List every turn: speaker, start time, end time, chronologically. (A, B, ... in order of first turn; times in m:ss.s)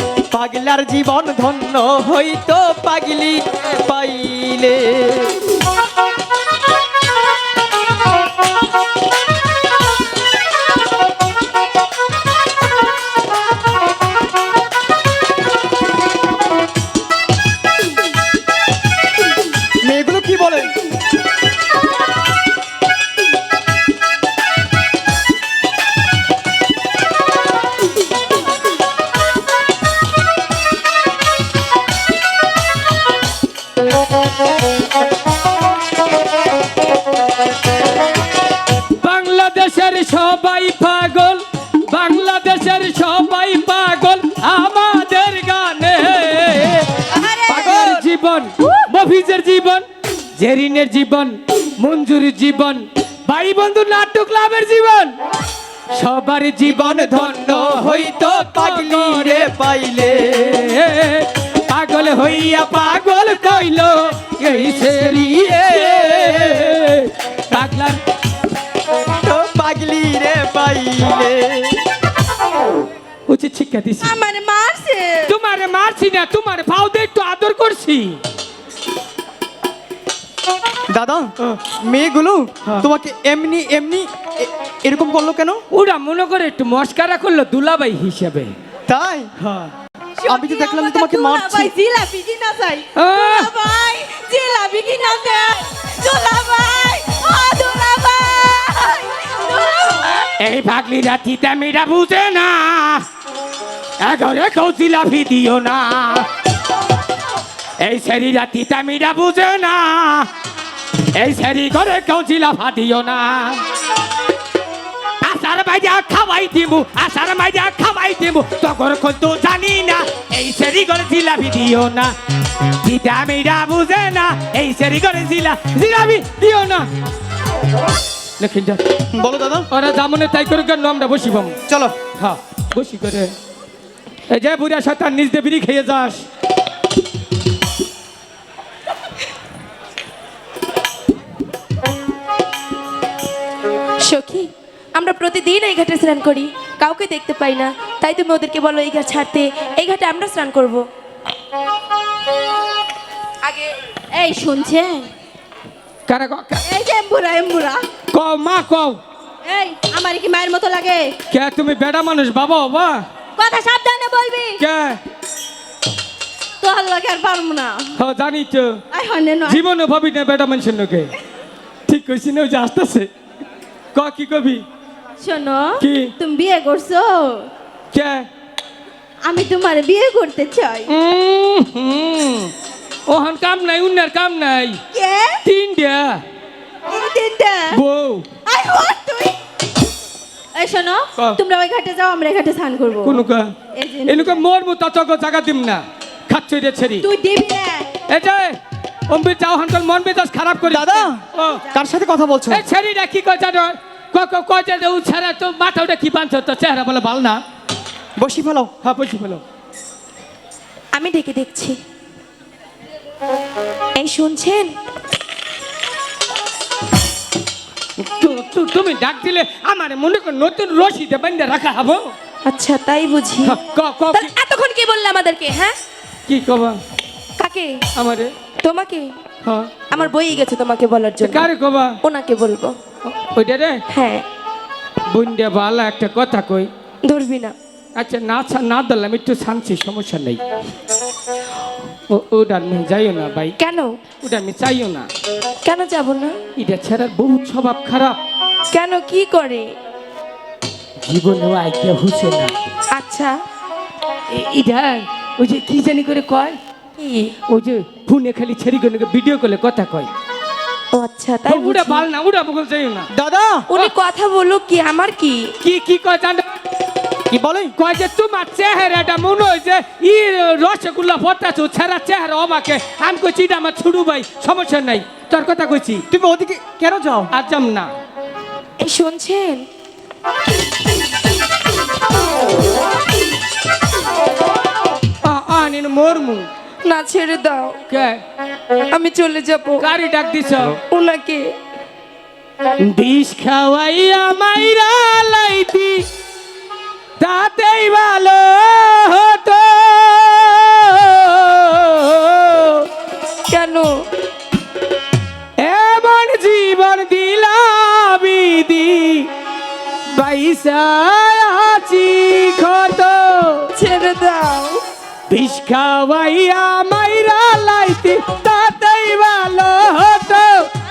0:00.3-0:05.4 A
0:19.8-0:20.7 A
0:39.0-0:49.9 B
0:47.1-0:48.0 C
0:50.4-0:55.2 B
0:55.9-0:59.5 B
0:56.6-1:00.8 A
1:00.5-1:08.0 B
1:05.0-1:06.8 A
1:09.2-1:11.8 A
1:13.3-1:14.2 B
1:14.0-1:15.3 C
1:15.3-1:18.2 B
1:20.9-1:25.6 A
1:25.7-1:28.5 B
1:28.9-1:29.3 A
1:29.4-1:29.7 B
1:30.2-1:40.3 C
1:30.3-1:31.7 A
1:33.0-1:33.5 B
1:40.4-1:43.1 B
1:44.0-1:46.3 B
1:47.8-1:50.3 B
1:51.2-1:53.6 B
1:55.2-2:06.9 B
2:08.4-2:08.8 B
2:09.2-2:09.7 A
2:09.7-2:11.6 B
2:11.7-2:12.0 A
2:12.1-2:13.3 B
2:14.3-2:16.2 B
2:24.0-2:30.9 D
2:34.1-2:35.1 C
2:36.1-2:36.6 B
2:36.7-2:37.9 C
2:38.1-2:39.0 B
2:39.5-2:41.1 C
2:41.3-2:43.0 B
2:43.4-2:44.6 C
2:44.6-2:45.0 B
2:46.6-2:47.9 C
2:48.0-2:48.8 B
2:48.9-2:49.6 C
2:49.5-2:51.1 B
2:51.9-2:53.1 B
2:53.9-2:54.6 B
2:55.2-2:57.5 C
2:55.8-2:56.1 B
2:57.9-2:58.3 B
2:59.2-3:00.9 C
3:00.9-3:02.5 B
3:03.1-3:04.8 B
3:04.9-3:05.4 C
3:05.4-3:06.2 B
3:06.9-3:07.8 C
3:07.7-3:08.3 B
3:08.5-3:09.4 C
3:10.6-3:13.2 C
3:13.0-3:13.5 B
3:13.8-3:14.4 C
3:14.1-3:17.1 B
3:17.0-3:17.9 C
3:18.1-3:18.6 B
3:19.1-3:21.6 B
3:20.7-3:22.6 A
3:22.5-3:27.4 B
3:28.2-3:28.7 A
3:28.8-3:29.4 B
3:30.9-3:31.8 D
3:34.0-3:34.8 D
3:38.0-3:42.1 B
3:42.5-3:43.6 D
3:43.4-3:44.3 B
3:44.1-3:45.8 D
3:46.3-3:46.8 B
3:47.4-3:47.8 D
3:48.0-3:48.3 B
3:48.6-3:49.2 D
3:49.4-3:49.7 B
3:49.9-3:51.5 D
3:51.2-3:52.0 B
3:52.0-3:52.8 D
3:53.0-3:53.8 B
3:53.9-3:54.2 D
3:55.1-3:56.7 B
3:57.1-3:57.6 D
3:58.0-4:00.4 B
4:02.1-4:03.6 B
4:03.6-4:04.0 D
4:04.2-4:05.1 B
4:05.6-4:06.4 D
4:06.6-4:08.2 B
4:08.7-4:09.7 D
4:11.0-4:12.5 B
4:12.9-4:13.4 D
4:14.3-4:16.6 B
4:17.0-4:17.4 D
4:17.5-4:20.1 B
4:20.9-4:22.1 D
4:21.5-4:23.1 B
4:23.1-4:23.7 A
4:23.7-4:25.5 D
4:25.6-4:26.6 B
4:27.3-4:27.7 A
4:27.8-4:36.0 B
4:36.1-4:37.3 A
4:37.3-4:37.9 B
4:38.8-4:39.7 D
4:45.2-4:46.5 B
4:46.8-4:47.8 D
4:47.9-4:48.2 B
4:48.9-4:49.9 D
4:49.8-4:50.8 B
4:50.9-4:51.6 D
4:52.8-4:56.1 B
4:57.2-5:02.9 B
5:03.5-5:03.9 D
5:05.6-5:09.3 B
5:10.1-5:13.7 B
5:13.8-5:14.8 D
5:15.3-5:20.7 B